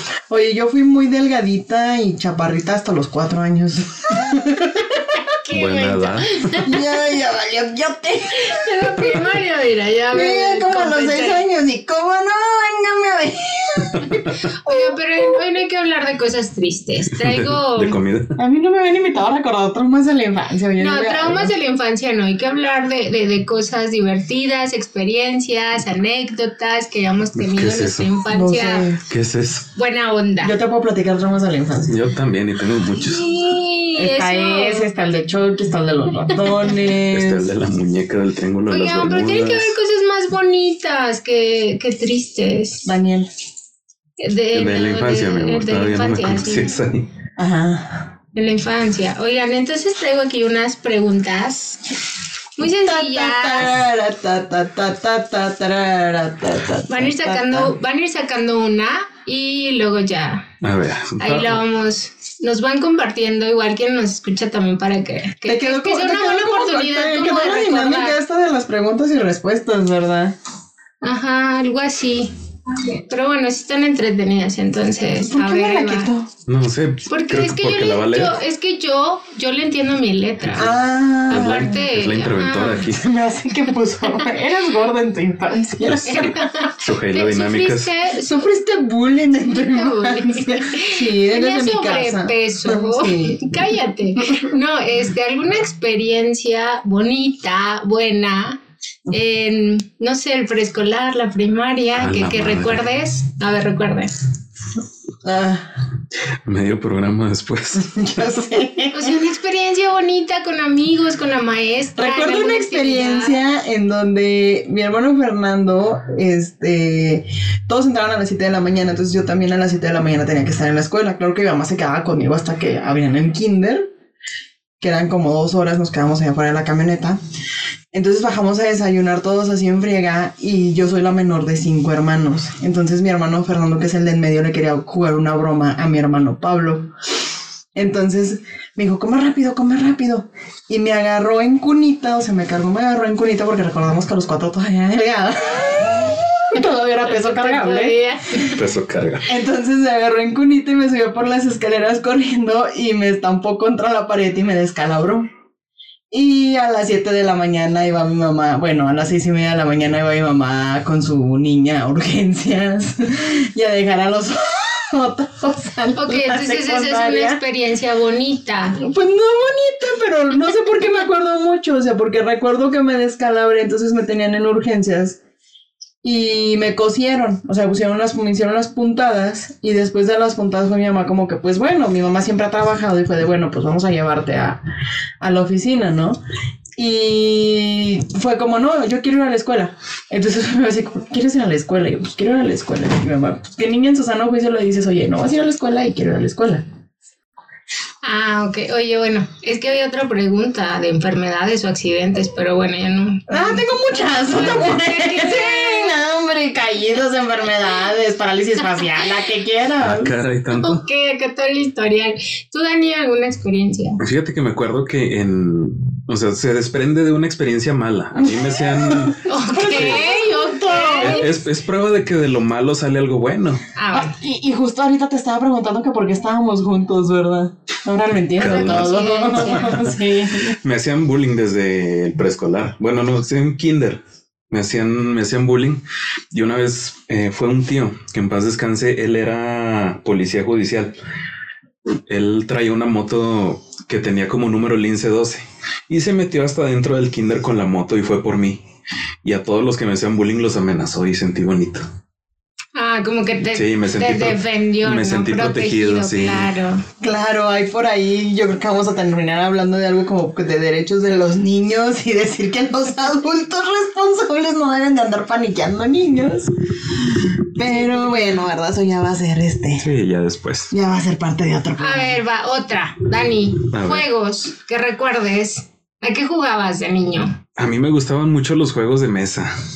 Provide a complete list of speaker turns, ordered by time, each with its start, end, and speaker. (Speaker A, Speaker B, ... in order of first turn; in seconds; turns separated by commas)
Speaker A: 0.3-5.2, Speaker B: 5.3-6.7, Speaker C: 5.5-6.5, Speaker A: 6.5-9.2, Speaker B: 8.4-11.4, Speaker A: 10.1-14.9, Speaker C: 13.9-14.3, Speaker B: 14.6-18.0, Speaker C: 17.1-18.3, Speaker A: 18.4-21.5, Speaker B: 20.8-28.9, Speaker C: 27.4-28.1, Speaker A: 28.3-29.0, Speaker C: 29.0-29.7, Speaker B: 29.7-30.5, Speaker A: 30.4-32.0, Speaker C: 31.9-33.3, Speaker B: 33.0-34.9, Speaker A: 34.0-37.5, Speaker C: 36.8-39.7, Speaker B: 38.7-42.9, Speaker A: 42.8-43.3, Speaker B: 44.2-46.8, Speaker C: 44.5-47.1, Speaker A: 47.4-48.1, Speaker B: 48.3-51.8, Speaker B: 52.6-53.8, Speaker A: 52.6-57.7, Speaker B: 56.9-60.5, Speaker C: 60.6-61.6, Speaker B: 61.2-68.2, Speaker A: 65.5-70.3, Speaker B: 71.0-76.1, Speaker A: 75.2-76.3, Speaker C: 76.5-78.4, Speaker B: 77.1-80.7, Speaker C: 80.4-80.7, Speaker A: 80.5-81.8, Speaker B: 81.3-82.9, Speaker C: 81.3-83.1, Speaker A: 82.9-86.5, Speaker C: 85.8-87.9, Speaker B: 86.0-88.6, Speaker A: 88.2-94.5, Speaker B: 89.4-98.6, Speaker B: 99.1-104.1, Speaker C: 102.0-102.9, Speaker A: 105.2-105.7, Speaker C: 106.4-108.3, Speaker A: 107.7-109.2, Speaker B: 108.9-113.4, Speaker A: 112.0-123.9, Speaker A: 124.8-127.2, Speaker A: 127.9-136.9, Speaker A: 137.7-148.0, Speaker B: 146.6-148.7, Speaker C: 148.5-149.3, Speaker A: 149.2-155.3, Speaker A: 156.1-167.4, Speaker B: 166.0-168.8, Speaker A: 168.8-175.2, Speaker A: 176.0-184.6, Speaker A: 185.2-186.2, Speaker A: 186.8-196.6, Speaker B: 198.0-205.9, Speaker A: 203.3-210.1, Speaker C: 209.8-210.8, Speaker B: 210.5-214.0, Speaker C: 214.0-220.1, Speaker A: 218.2-221.4, Speaker B: 219.2-221.4, Speaker C: 221.0-223.6, Speaker B: 223.8-224.2, Speaker A: 223.9-230.6, Speaker C: 228.4-229.0, Speaker B: 228.4-229.8, Speaker C: 229.5-229.9, Speaker C: 230.5-240.9, Speaker C: 242.1-248.6, Speaker C: 249.2-251.8, Speaker B: 252.7-256.8, Speaker C: 253.5-256.5, Speaker A: 257.0-269.9, Speaker C: 269.8-270.7, Speaker A: 270.7-272.2, Speaker B: 271.8-277.4, Speaker C: 273.7-274.1, Speaker C: 277.6-279.5